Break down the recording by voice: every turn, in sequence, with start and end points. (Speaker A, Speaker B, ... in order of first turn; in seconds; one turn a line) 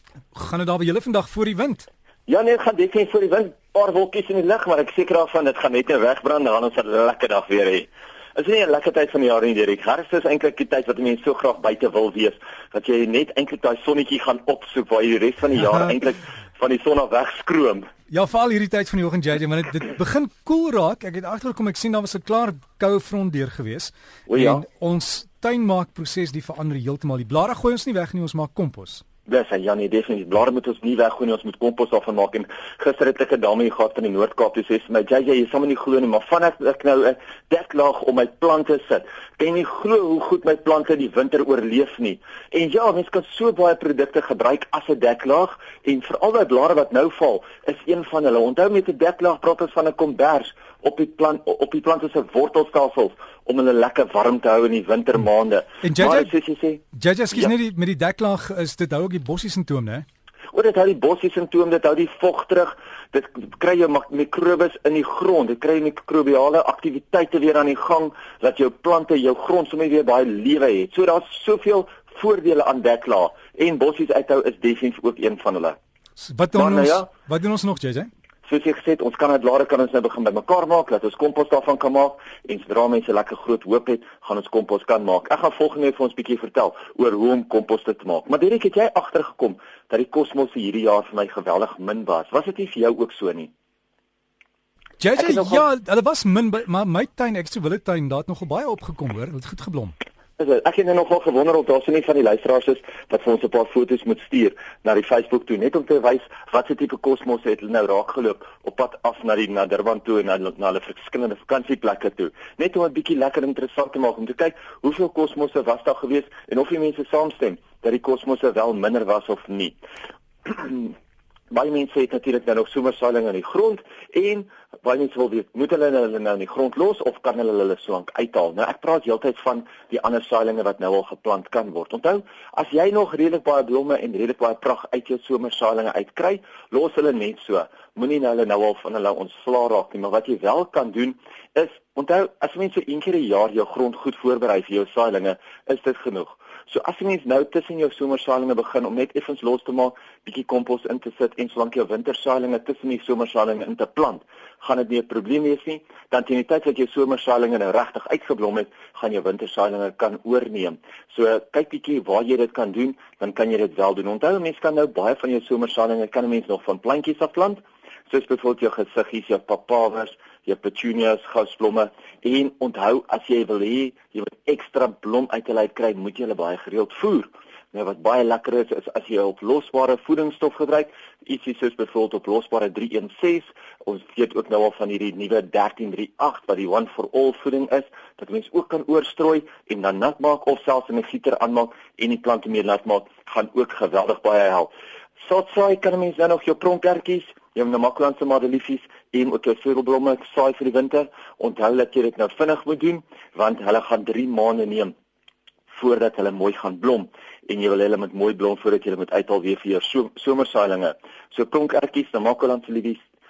Speaker A: 0.3-1.9
Speaker B: 2.3-17.9
Speaker A: 18.1-29.0
Speaker B: 24.3-24.6
Speaker B: 29.3-56.8
Speaker A: 55.8-56.3
Speaker A: 56.9-60.1
Speaker B: 60.5-75.8
Speaker A: 76.2-78.1
Speaker B: 76.5-77.1
Speaker B: 78.5-93.5
Speaker A: 95.0-100.0
Speaker B: 95.2-95.7
Speaker B: 100.4-119.8
Speaker B: 120.5-121.0
Speaker B: 121.5-194.7
Speaker B: 195.2-204.9
Speaker B: 205.7-213.0